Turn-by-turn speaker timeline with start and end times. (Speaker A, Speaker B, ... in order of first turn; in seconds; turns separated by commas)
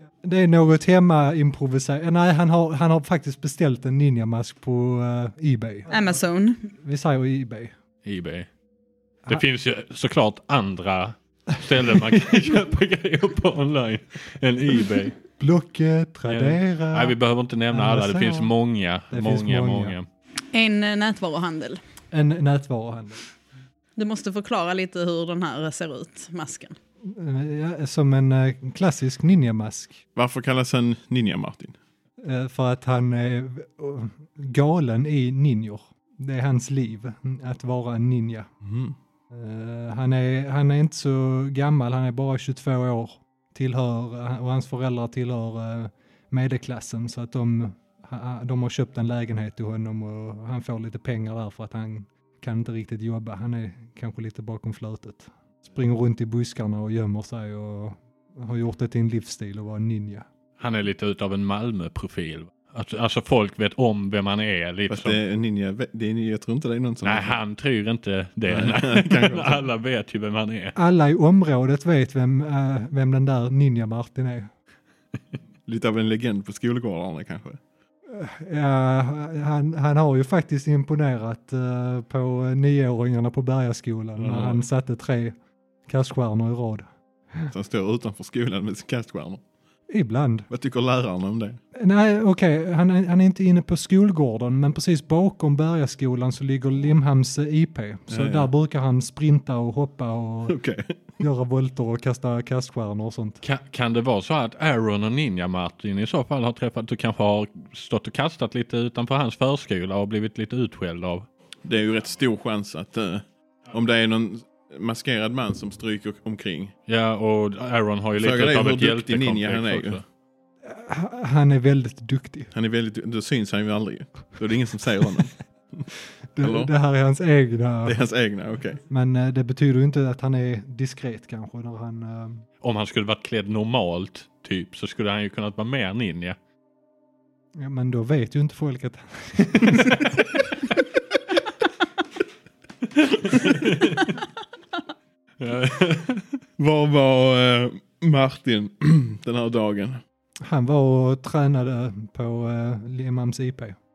Speaker A: 0.2-6.1, Speaker B: 5.9-6.7, Speaker A: 6.7-7.7, Speaker C: 8.0-8.5, Speaker C: 9.3-15.2, Speaker A: 15.4-17.2, Speaker C: 16.3-20.0, Speaker A: 17.7-18.5, Speaker A: 19.1-19.9, Speaker B: 20.5-21.8, Speaker A: 22.1-23.2, Speaker B: 23.9-26.8, Speaker A: 27.0-30.0, Speaker D: 30.1-31.8, Speaker A: 32.2-38.5, Speaker D: 38.6-39.0, Speaker A: 39.3-60.3, Speaker C: 60.6-65.2, Speaker D: 64.9-67.4, Speaker C: 67.0-70.7, Speaker D: 68.5-69.7, Speaker A: 70.7-74.5, Speaker D: 75.7-77.6, Speaker A: 78.1-85.3, Speaker A: 85.8-87.5, Speaker D: 87.5-89.4, Speaker A: 89.9-90.5, Speaker D: 90.5-91.6, Speaker A: 91.7-100.6, Speaker D: 98.1-98.5, Speaker D: 100.5-101.0, Speaker A: 101.2-103.4, Speaker C: 103.4-111.3, Speaker D: 111.6-116.7, Speaker C: 116.9-120.0, Speaker D: 118.2-120.0, Speaker A: 120.6-122.5, Speaker D: 122.5-125.8, Speaker A: 126.3-128.0, Speaker D: 126.4-126.7, Speaker D: 127.8-128.8, Speaker A: 128.9-132.4, Speaker C: 132.6-136.4, Speaker A: 137.6-140.1, Speaker C: 139.8-140.1, Speaker C: 143.0-144.2, Speaker C: 145.4-146.4, Speaker D: 146.6-150.0, Speaker A: 150.4-153.8